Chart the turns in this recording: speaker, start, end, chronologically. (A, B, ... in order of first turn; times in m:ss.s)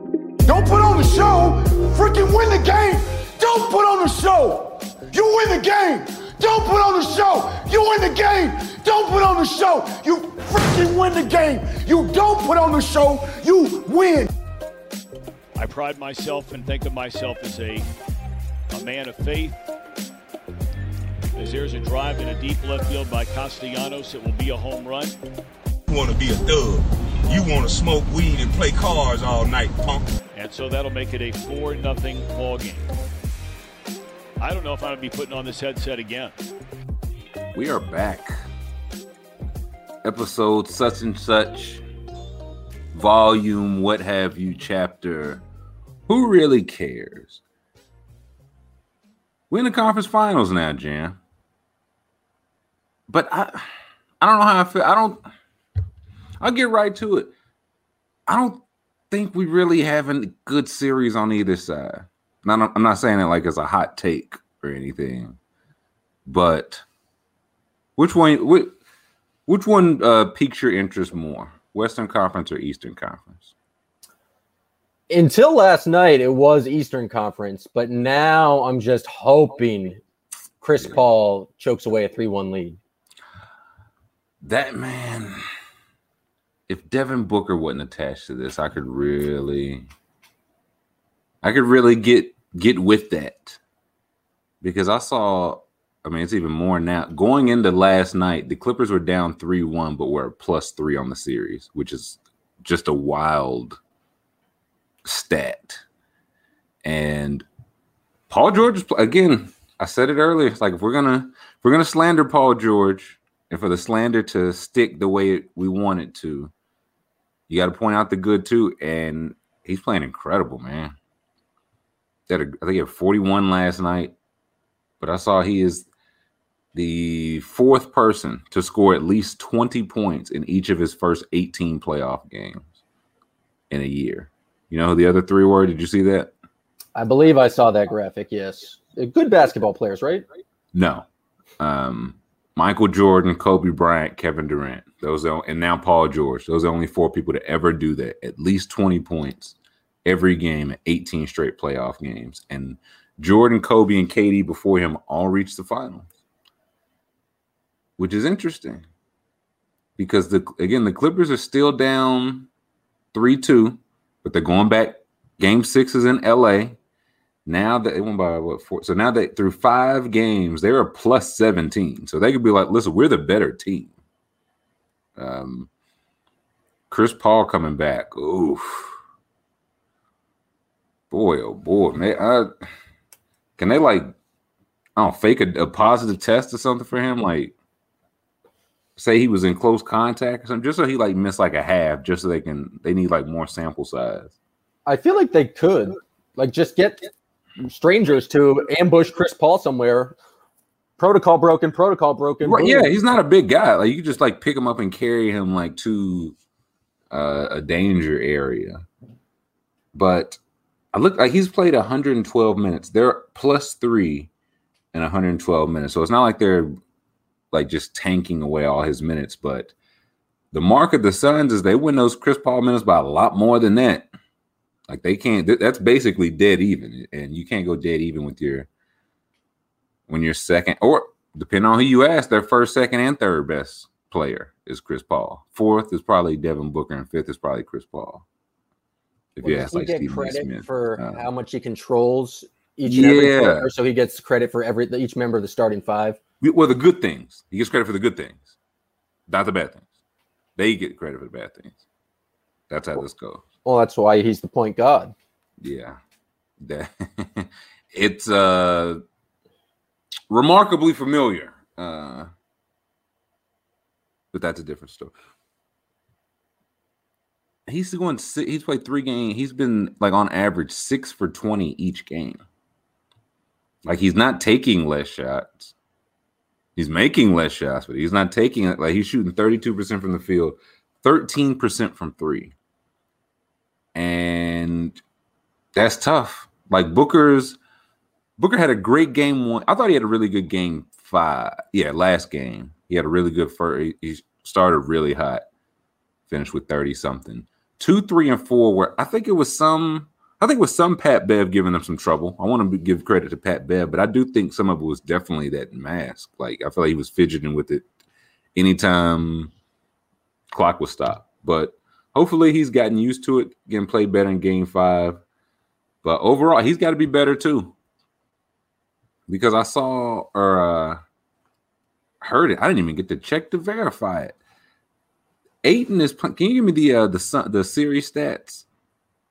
0:00.4-0:14.3 A
0:15.6-0:17.9 B
0:18.7-0:19.6 B
0:21.3-0:25.1 B
0:25.9-0:30.0 C
0:30.3-0:32.9 B
0:34.4-0:36.4 B
0:37.5-0:38.3 D
0:40.0-0:41.8 D
0:42.9-0:45.4 D
0:46.1-0:47.4 D
0:49.5-0:51.2 D
0:53.1-0:55.2 D
0:56.4-0:57.3 D
0:58.3-1:05.4 D
1:06.2-1:06.8 D
1:08.0-1:08.7 D
1:09.5-1:13.5 D
1:15.1-1:20.0 E
1:20.6-1:22.8 E
1:24.4-1:25.4 D
1:26.7-1:29.8 D
1:31.4-1:33.6 D
1:34.6-1:43.8 D
1:45.0-1:45.8 D
1:46.8-1:47.4 D
1:48.3-1:56.5 D
1:57.5-2:00.9 D
2:02.3-2:04.1 D
2:05.0-2:05.9 D
2:06.7-2:12.7 D
2:13.7-2:16.3 D
2:16.9-2:20.2 E
2:20.7-2:21.0 D
2:21.6-2:36.1 D
2:38.0-2:38.8 D
2:40.0-2:42.5 D
2:43.1-2:46.8 D
2:47.4-2:53.9 D
2:55.2-2:55.7 D
2:56.9-2:58.9 D
3:01.1-3:02.5 D
3:03.6-3:04.1 D
3:05.0-3:07.5 D
3:09.0-3:14.3 D
3:14.8-3:17.0 E
3:17.6-3:20.2 E
3:21.0-3:22.9 E
3:22.4-3:26.3 D
3:27.1-3:28.8 D
3:29.9-3:30.4 D
3:30.9-3:34.3 D
3:34.9-3:36.7 D
3:37.5-3:39.7 D
3:40.5-3:44.1 D
3:44.9-3:48.7 D
3:50.1-3:58.2 D
3:59.4-4:01.2 D
3:59.4-4:06.2 E
4:02.9-4:03.7 D
4:06.4-4:08.5 D
4:09.3-4:09.8 D
4:10.6-4:11.8 D
4:12.7-4:13.4 D
4:13.6-4:15.1 E
4:15.6-4:16.0 D
4:16.6-4:19.0 D
4:20.3-4:22.3 D
4:24.3-4:25.1 D
4:27.7-4:32.4 D
4:33.8-4:35.7 D
4:36.8-4:42.5 D
4:43.9-4:45.0 D
4:45.7-4:47.6 D
4:48.4-4:55.4 D
4:56.3-5:07.8 D
5:08.5-5:09.5 D
5:10.5-5:15.2 D
5:16.0-5:17.7 D
5:19.3-5:21.0 D
5:22.2-5:24.4 D
5:25.6-5:28.6 D